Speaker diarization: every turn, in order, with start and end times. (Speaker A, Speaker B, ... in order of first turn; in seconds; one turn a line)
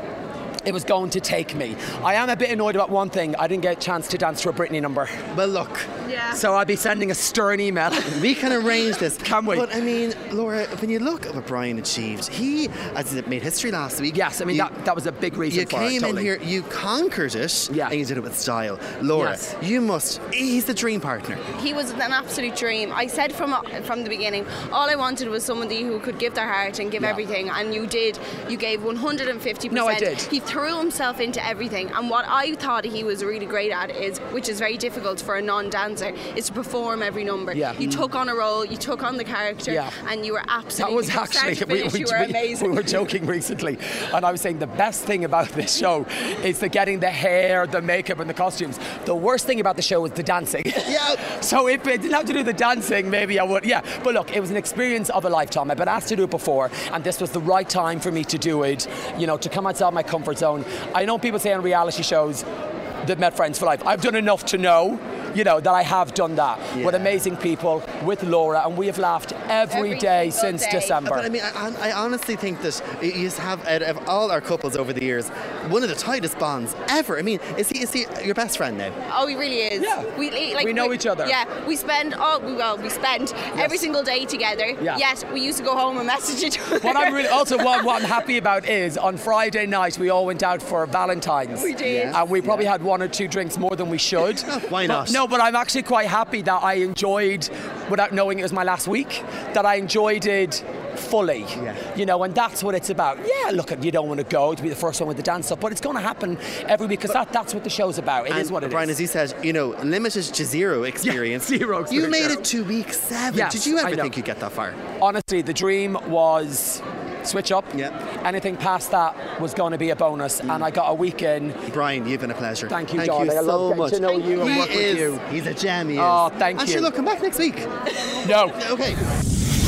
Speaker A: 0.6-5.2
Speaker B: 5.3-5.9
Speaker A: 6.3-9.8
Speaker B: 8.1-14.7
Speaker A: 14.1-16.3
Speaker B: 15.5-21.4
Speaker A: 17.7-17.9
Speaker A: 19.1-19.4
Speaker C: 21.5-43.0
Speaker A: 29.7-30.3
Speaker A: 37.5-38.1
Speaker A: 39.7-39.9
Speaker A: 40.7-62.4
Speaker B: 50.9-51.2
Speaker A: 63.0-71.3
Speaker B: 66.7-67.1
Speaker C: 69.7-71.0
Speaker B: 71.0-79.0
Speaker C: 79.1-88.2
Speaker A: 79.8-81.4
Speaker A: 83.5-83.8
Speaker A: 86.8-109.0
Speaker C: 91.5-92.4
Speaker B: 91.8-92.6
Speaker B: 94.3-95.2
Speaker B: 101.5-101.8
Speaker B: 108.3-114.8
Speaker A: 111.0-112.5
Speaker A: 113.3-114.1
Speaker A: 115.0-121.6
Speaker B: 121.7-127.8
Speaker A: 122.7-125.2
Speaker A: 126.0-126.9
Speaker A: 128.2-128.6
Speaker B: 128.5-129.0